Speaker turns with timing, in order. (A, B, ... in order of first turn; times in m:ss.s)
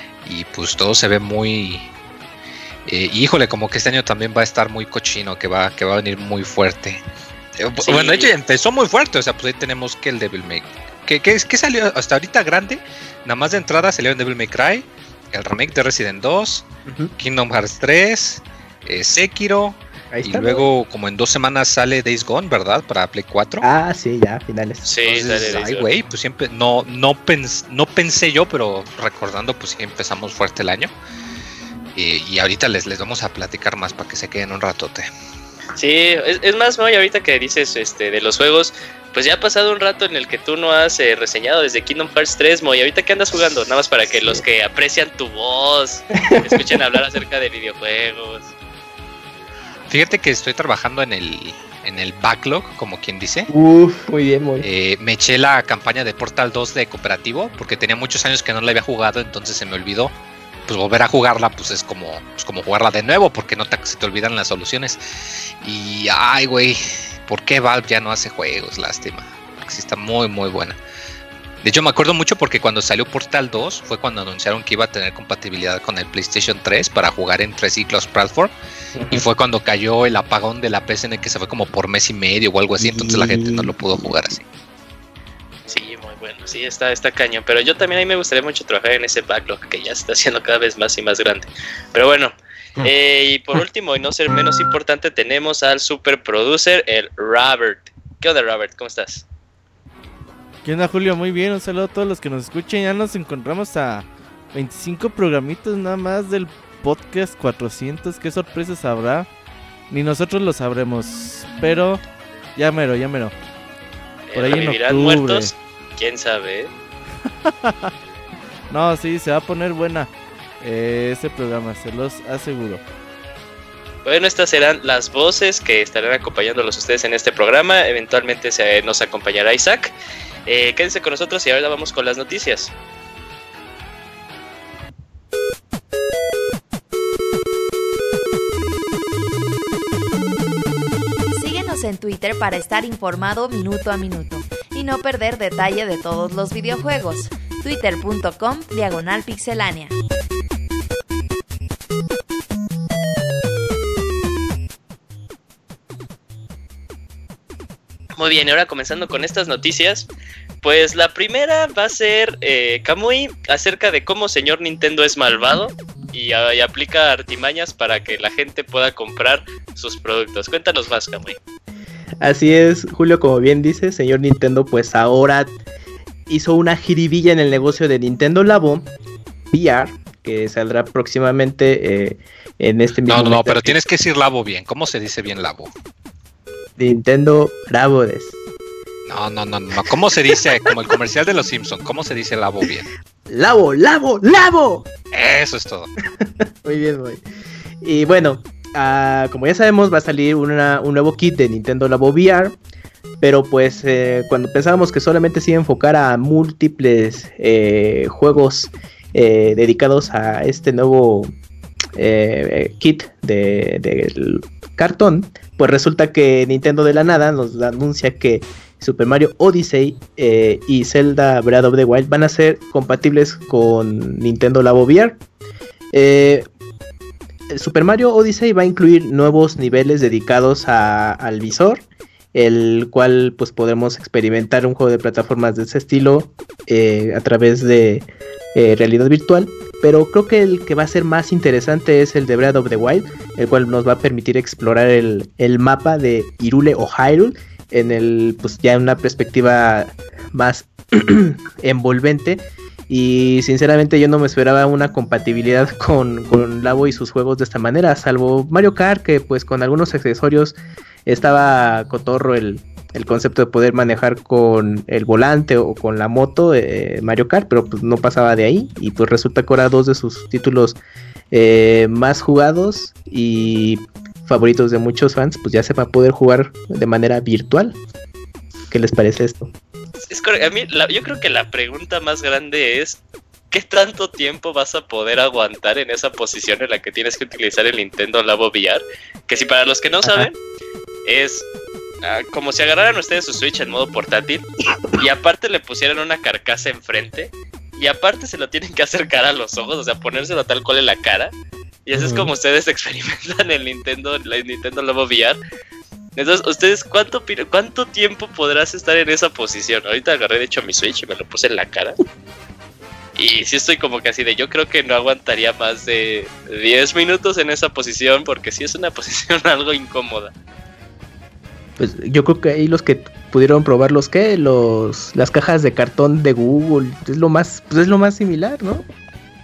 0:00.2-0:01.9 A
0:02.8-0:07.0 A
0:07.6-0:16.6 A
0:07.8-0:08.3 B
0:16.8-0:17.1 C
0:17.2-0:23.6 A
0:20.1-0:20.7 C
0:23.6-0:25.7 C
0:24.8-0:25.9 B
0:25.0-0:30.9 A
0:31.9-0:35.1 A
0:35.8-0:48.5 B
0:46.2-0:46.8 C
0:49.9-0:53.5 A
0:53.5-0:54.7 C
0:54.6-1:00.1 A
1:00.7-1:05.0 A
1:05.6-1:10.8 A
1:11.6-1:18.5 A
1:18.9-1:19.2 C
1:19.1-1:24.4 A
1:22.8-1:24.1 C
1:25.7-1:39.2 B
1:40.6-1:49.3 D
1:49.9-1:52.0 D
1:52.6-1:53.3 D
1:54.3-1:56.7 B
1:54.3-1:55.5 D
1:57.4-1:57.9 D
1:58.7-2:00.1 D
2:00.6-2:02.8 D
2:04.0-2:09.9 B
2:10.4-2:12.7 B
2:21.3-2:29.9 E
2:38.2-2:40.1 B
2:40.6-2:51.4 B
2:52.2-2:55.6 C
2:56.3-2:58.9 C
2:59.5-3:03.8 C
3:03.1-3:05.7 A
3:06.8-3:08.4 C
3:09.1-3:12.9 A
3:13.3-3:14.9 C
3:15.1-3:15.9 A
3:16.2-3:17.2 C
3:17.8-3:22.6 C
3:23.2-3:31.3 C
3:31.9-3:45.2 C
3:45.9-3:46.5 C
3:47.5-3:51.8 C
3:52.3-4:37.8 C
4:38.7-4:39.5 C
4:40.1-4:43.0 B
4:43.5-4:50.4 B
4:50.0-4:50.3 C
4:51.0-4:51.4 B
4:52.0-5:01.3 B
5:01.8-5:05.4 B
5:02.0-5:02.3 C
5:06.2-5:12.0 B
5:13.2-5:20.3 B
5:21.8-5:28.8 C